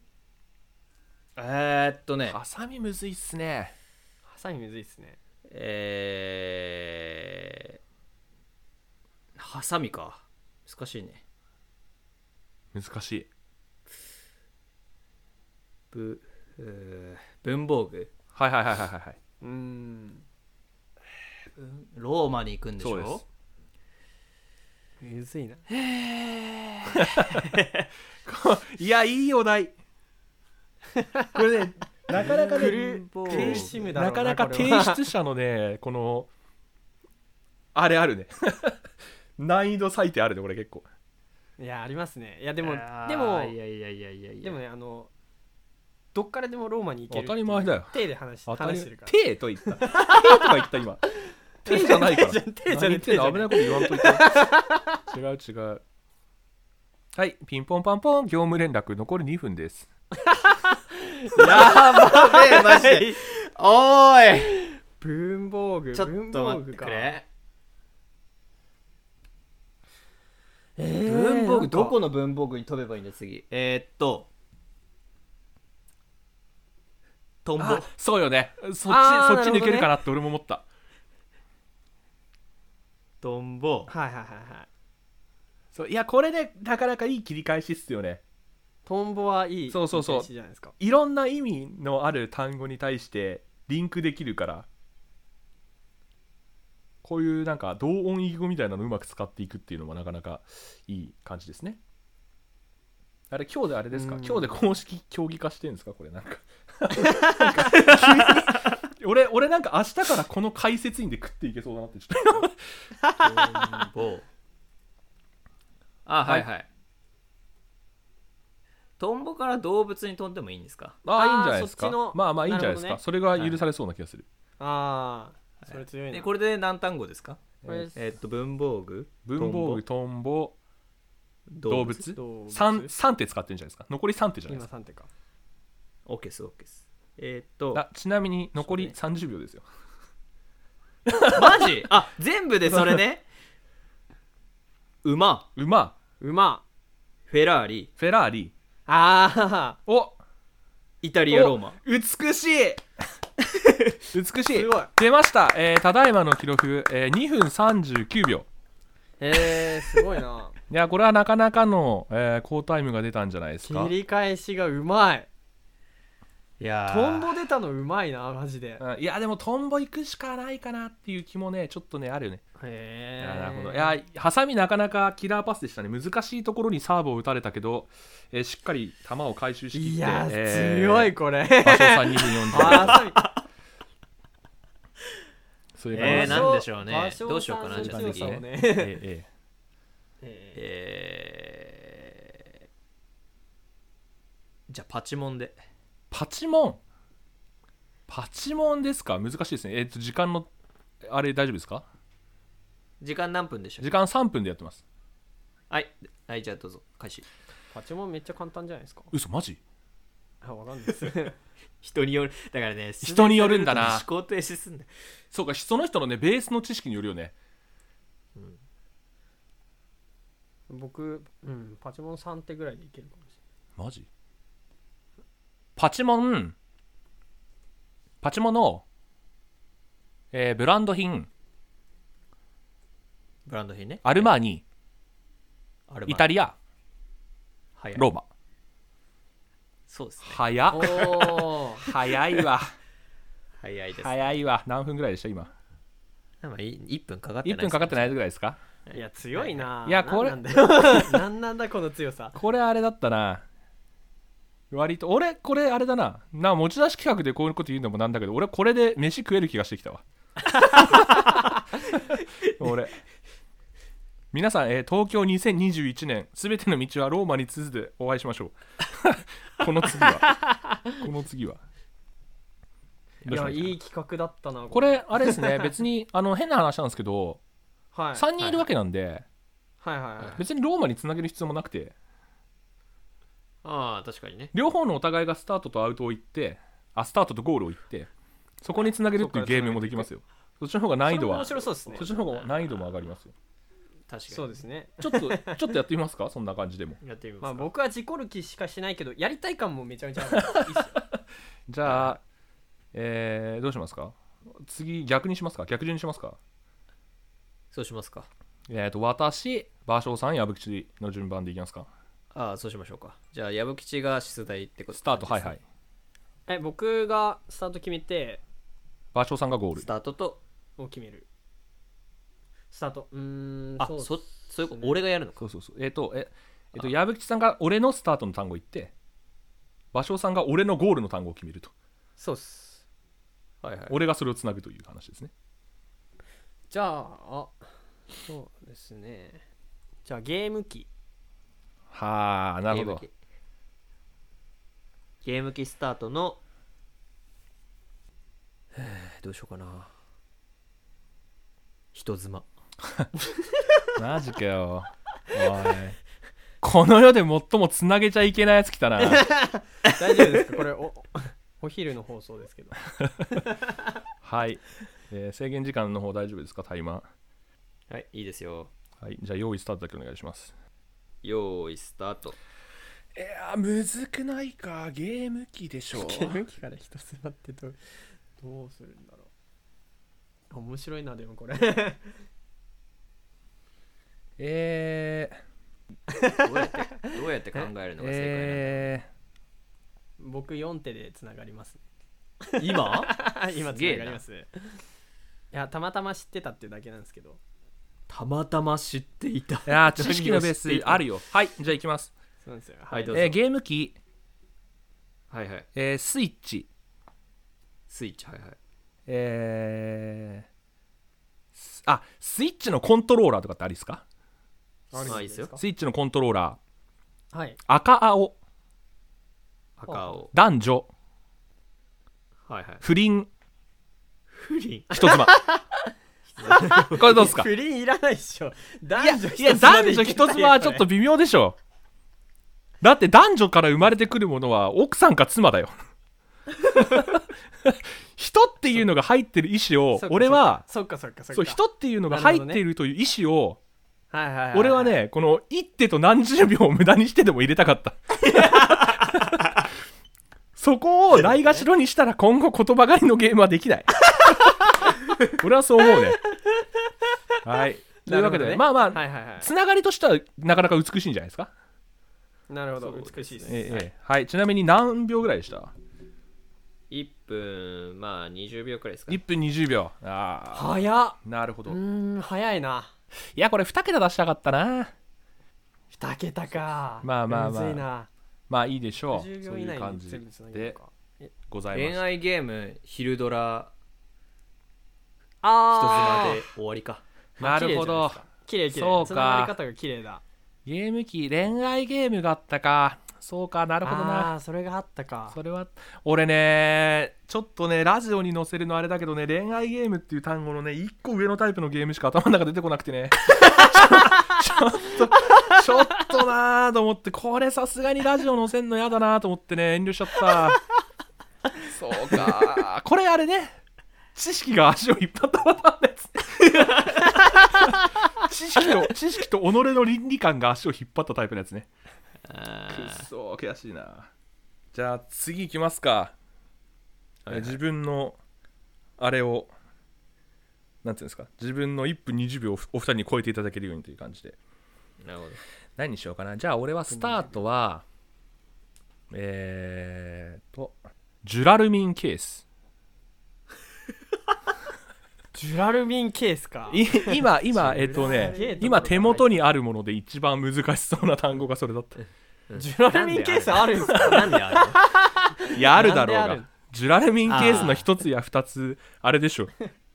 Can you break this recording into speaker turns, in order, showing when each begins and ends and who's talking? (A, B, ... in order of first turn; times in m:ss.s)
0:01.4-0:02.4 A
0:02.3-0:03.7 B
0:04.3-0:05.2 C
0:05.5-0:07.8 A
0:09.4-0:11.2 A
0:12.7-0:13.3 B
0:15.9-0:18.1 A
0:18.4-0:19.2 B
0:19.4-0:20.2 C
0:21.6-0:23.2 A
0:22.8-0:23.2 B
0:25.0-0:25.6 C
0:25.7-0:27.6 A
0:26.9-0:27.5 B
0:28.2-0:29.8 B
0:31.0-0:31.3 C
0:31.3-0:36.3 B
0:32.1-0:33.9 A
0:32.2-0:35.0 C
0:37.7-0:38.8 B
0:39.4-0:40.9 B
0:41.6-0:43.6 C
0:42.6-0:44.6 A
0:44.4-0:45.1 C
0:46.1-0:49.1 C
0:47.1-0:51.0 B
0:49.7-0:50.5 C
0:51.6-0:54.5 B
0:51.6-0:55.0 C
0:55.1-0:55.8 B
0:57.2-0:59.9 B
1:00.2-1:03.1 C
1:01.3-1:04.8 A
1:05.0-1:07.2 C
1:05.9-1:07.2 A
1:10.8-1:12.0 C
1:11.0-1:14.3 A
1:17.4-1:17.9 A
1:17.6-1:20.7 B
1:18.9-1:19.9 C
1:23.2-1:23.9 A
1:23.9-1:24.7 C
1:25.7-1:28.2 B
1:28.9-1:30.7 C
1:29.7-1:34.7 B
1:37.0-1:41.8 B
1:43.3-1:52.6 B
1:43.9-1:44.6 C
1:47.0-1:47.9 C
1:53.0-1:53.9 C
1:53.3-1:54.3 A
1:56.1-1:56.7 A
1:59.0-2:01.0 A
2:01.0-2:04.3 B
2:01.1-2:03.0 C
2:03.3-2:03.6 A
2:04.6-2:06.3 C
2:05.6-2:09.8 A
2:07.6-2:07.9 B
2:07.7-2:08.0 C
2:09.3-2:10.6 B
2:11.5-2:12.1 A
2:11.7-2:14.7 B
2:12.1-2:12.9 C
2:14.5-2:15.1 C
2:16.1-2:17.8 A
2:17.7-2:19.7 B
2:18.6-2:18.9 A
2:21.1-2:21.8 B
2:21.3-2:23.2 A
2:22.7-2:23.0 B
2:25.0-2:25.5 A
2:25.6-2:26.0 B
2:26.2-2:26.6 C
2:27.3-2:27.9 A
2:28.0-2:28.5 B
2:28.9-2:29.8 C
2:29.9-2:30.2 B
2:31.0-2:31.8 A
2:31.3-2:32.8 B
2:34.1-2:38.5 B
2:34.5-2:34.9 C
2:39.2-2:40.6 C
2:40.7-2:43.9 B
2:43.6-2:45.3 C
2:46.6-2:47.4 A
2:46.9-2:48.8 C
2:48.8-2:52.4 B
2:52.6-2:54.0 C
2:53.2-3:03.0 B
2:59.7-3:03.2 C
3:02.6-3:03.4 A
3:05.8-3:06.5 B
3:05.9-3:08.4 A
3:06.0-3:09.0 C
3:07.7-3:09.3 B
3:10.2-3:10.6 C
3:10.6-3:12.2 A
3:14.7-3:15.6 A
3:16.1-3:16.8 B
3:18.1-3:20.5 B
3:21.0-3:21.9 B
3:23.0-3:23.9 A
3:23.8-3:24.8 B
3:25.7-3:27.3 A
3:27.7-3:29.1 C
3:29.1-3:29.6 B
3:30.4-3:31.4 C
3:31.8-3:34.9 A
3:33.0-3:34.0 B
3:35.3-3:37.4 B
3:40.7-3:43.4 C
3:43.8-3:44.1 B
3:45.8-3:46.6 B
3:48.2-3:48.8 B
3:50.3-3:51.3 B
3:53.5-3:54.3 A
3:54.0-3:54.6 B
3:55.9-3:56.3 A
3:56.1-3:56.6 B
3:57.8-3:58.1 A
3:58.0-3:58.3 B
3:59.9-4:01.2 A
4:00.2-4:02.7 B
4:00.7-4:01.8 C
4:03.6-4:04.4 A
4:04.0-4:05.5 B
4:06.4-4:08.2 A
4:07.4-4:08.6 B
4:08.9-4:09.7 A
4:08.9-4:12.4 C
4:09.8-4:11.0 B
4:12.4-4:13.4 B
4:14.7-4:20.0 B
4:20.6-4:21.6 C
4:20.7-4:23.0 B
4:24.3-4:31.6 B
4:33.2-4:33.8 B
4:33.3-4:35.7 C
4:34.7-4:37.4 B
4:37.9-4:38.6 C
4:38.2-4:39.3 B
4:39.8-4:40.4 C
4:40.4-4:42.0 B
4:43.6-4:44.5 A
4:44.5-4:48.1 B
4:48.6-4:53.3 B
4:49.1-4:50.1 C
4:51.0-4:52.1 C
4:54.1-4:54.6 A
4:54.3-4:55.7 C
4:55.0-4:57.0 B
4:57.0-4:57.7 A
4:57.4-5:01.0 C
5:00.3-5:02.2 B
5:01.8-5:02.2 A
5:02.9-5:06.4 B
5:07.7-5:08.3 A
5:08.7-5:11.9 B
5:12.3-5:15.6 A
5:14.9-5:15.6 B
5:16.5-5:18.4 C
5:19.1-5:19.9 B
5:19.8-5:20.4 A
5:20.8-5:21.3 C
5:22.7-5:25.0 C
5:23.8-5:25.4 A
5:25.4-5:28.9 B
5:29.9-5:31.7 B
5:32.2-5:32.8 C
5:33.6-5:34.0 A
5:33.9-5:35.3 B
5:36.7-5:37.6 C
5:38.2-5:39.4 C
5:40.0-5:40.9 C
5:41.9-5:43.0 B
5:42.7-5:43.1 A
5:45.2-5:46.4 A
5:48.7-5:49.9 A
5:51.9-5:52.5 A
5:54.0-5:56.0 B
5:56.6-5:59.3 B
5:59.0-6:03.7 C
6:04.2-6:07.1 B
6:07.9-6:08.7 A
6:09.0-6:10.5 B
6:11.2-6:12.4 A
6:13.2-6:16.4 B
6:16.0-6:17.8 C
6:18.4-6:19.3 C
6:20.5-6:22.2 C
6:24.4-6:25.4 B
6:26.1-6:26.5 C
6:26.3-6:28.9 A
6:28.0-6:29.1 B
6:30.2-6:31.8 C
6:32.4-6:34.5 C
6:32.6-6:34.2 A
6:35.5-6:37.4 C
6:38.1-6:41.0 A
6:39.7-6:42.1 B
6:42.4-6:43.3 C
6:42.9-6:43.4 A
6:43.1-6:44.0 B
6:45.3-6:45.7 A
6:45.8-6:46.7 B
6:47.9-6:48.6 A
6:49.1-6:50.5 B
6:51.6-6:54.0 B
6:54.9-6:55.6 C
6:55.0-6:55.5 A
6:55.1-6:56.6 B
6:57.3-6:57.6 C
6:57.7-6:58.4 B
6:59.8-7:00.3 A
6:59.9-7:00.2 C
7:00.3-7:00.9 B
7:02.5-7:02.8 A
7:02.8-7:03.3 B
7:04.3-7:05.0 A
7:04.9-7:05.4 B
7:05.0-7:05.7 C
7:06.4-7:07.0 A
7:06.4-7:10.9 C
7:06.9-7:07.5 B
7:09.0-7:11.6 B
7:12.8-7:15.7 B
7:16.6-7:20.6 B
7:20.0-7:22.6 C
7:21.3-7:23.6 B
7:24.1-7:25.0 C
7:24.5-7:29.7 B
7:30.6-7:34.6 B
7:31.2-7:31.7 C
7:35.3-7:36.2 B
7:37.4-7:41.5 B
7:38.1-7:39.5 C
7:42.5-7:43.8 C
7:42.8-7:43.8 A
7:43.5-7:45.7 B
7:46.9-7:49.2 A
7:49.1-7:51.8 B
7:50.5-7:52.9 C
7:53.4-7:54.9 B
7:55.9-7:58.1 C
7:57.0-7:57.9 B
7:58.5-8:00.8 B
7:59.1-8:01.3 C
8:01.5-8:02.0 B
8:01.7-8:03.7 A
8:05.4-8:06.4 C
8:05.7-8:07.0 A
8:07.4-8:09.6 B
8:07.4-8:10.2 C
8:10.6-8:14.3 B
8:13.8-8:15.4 C
8:15.3-8:30.6 B
8:31.6-8:33.6 B
8:34.2-8:41.7 B
8:42.3-8:43.0 A
8:42.7-8:44.1 B
8:44.7-8:46.1 B
8:47.2-8:47.6 A
8:47.3-8:48.2 B
8:49.0-8:49.5 B
8:50.8-8:54.4 B
8:55.0-8:55.4 A
8:55.8-8:57.8 B
8:56.9-8:57.4 C
8:59.1-9:02.4 B
9:05.3-9:09.3 C
9:06.7-9:12.0 B
9:07.5-9:09.2 A
9:12.5-9:14.8 A
9:12.6-9:16.5 C
9:13.9-9:14.3 B
9:15.5-9:19.5 B
9:17.3-9:17.9 A